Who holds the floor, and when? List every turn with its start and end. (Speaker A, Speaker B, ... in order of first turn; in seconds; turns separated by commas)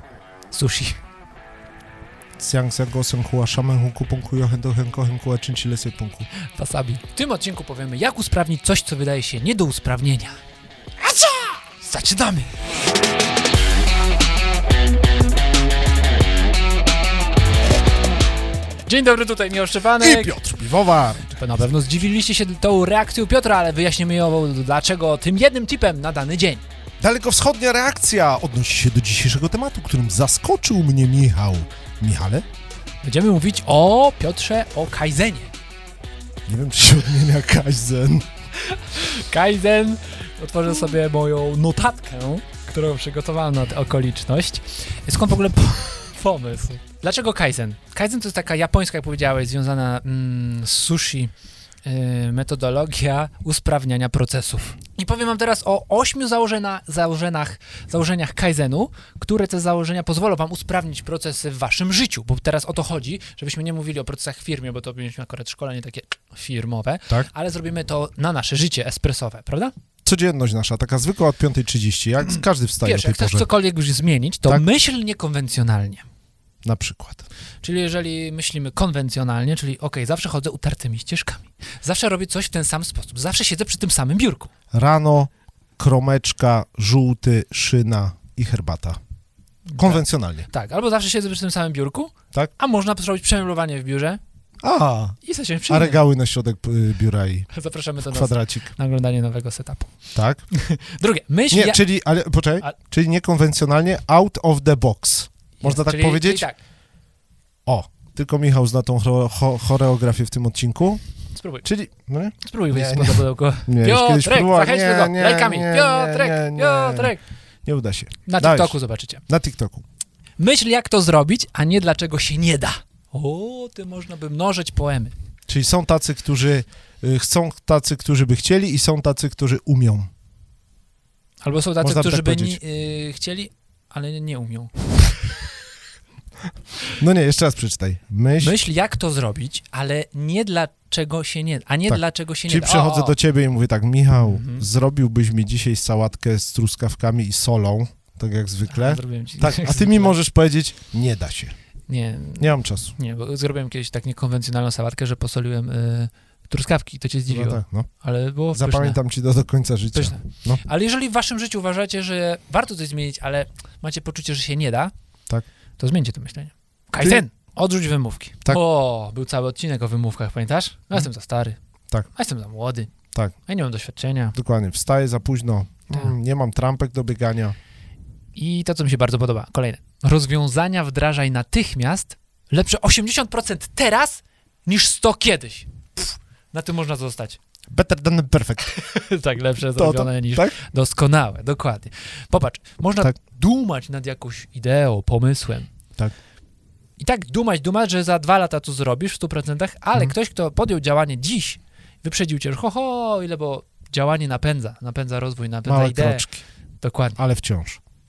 Speaker A: 0.5-1.0, Speaker B: 2.4-6.3, Speaker A: 6.5-10.4, Speaker A: 11.0-12.6, Speaker A: 18.9-20.4, Speaker B: 20.0-21.4, Speaker A: 21.3-26.6, Speaker B: 27.0-32.5, Speaker A: 33.0-35.5, Speaker B: 36.5-38.3, Speaker A: 38.6-51.3, Speaker A: 51.8-69.7, Speaker B: 70.0-73.5, Speaker A: 72.8-76.0, Speaker B: 76.6-77.2, Speaker A: 77.6-84.5, Speaker B: 84.7-89.0, Speaker A: 89.7-94.2, Speaker B: 89.8-90.5, Speaker B: 94.6-95.2, Speaker A: 95.2-96.0, Speaker B: 95.7-97.5, Speaker A: 97.5-99.9, Speaker B: 98.0-98.7, Speaker B: 100.1-100.4, Speaker A: 100.5-101.8, Speaker B: 101.5-106.5, Speaker A: 105.6-106.6, Speaker B: 107.7-111.0, Speaker A: 111.3-111.6, Speaker B: 111.6-117.1, Speaker A: 112.4-117.2, Speaker B: 117.6-118.8, Speaker A: 118.3-119.2, Speaker B: 119.3-119.8, Speaker A: 120.4-125.1, Speaker B: 125.5-130.1, Speaker A: 131.4-135.1, Speaker B: 131.8-132.6, Speaker B: 136.9-138.6, Speaker A: 138.4-143.2, Speaker B: 141.9-151.5, Speaker A: 144.2-144.6, Speaker A: 148.7-150.2, Speaker A: 151.9-159.0, Speaker B: 152.4-152.9, Speaker B: 157.3-157.9, Speaker B: 158.5-160.6, Speaker A: 159.9-164.9, Speaker A: 165.8-171.6, Speaker B: 167.0-167.2, Speaker A: 172.1-172.9, Speaker A: 173.5-174.3, Speaker B: 174.3-177.6, Speaker A: 178.3-187.4, Speaker B: 187.7-188.8, Speaker A: 188.7-195.7, Speaker B: 189.7-190.6, Speaker A: 197.0-206.2, Speaker B: 205.7-206.4, Speaker A: 206.8-207.2, Speaker B: 207.2-207.8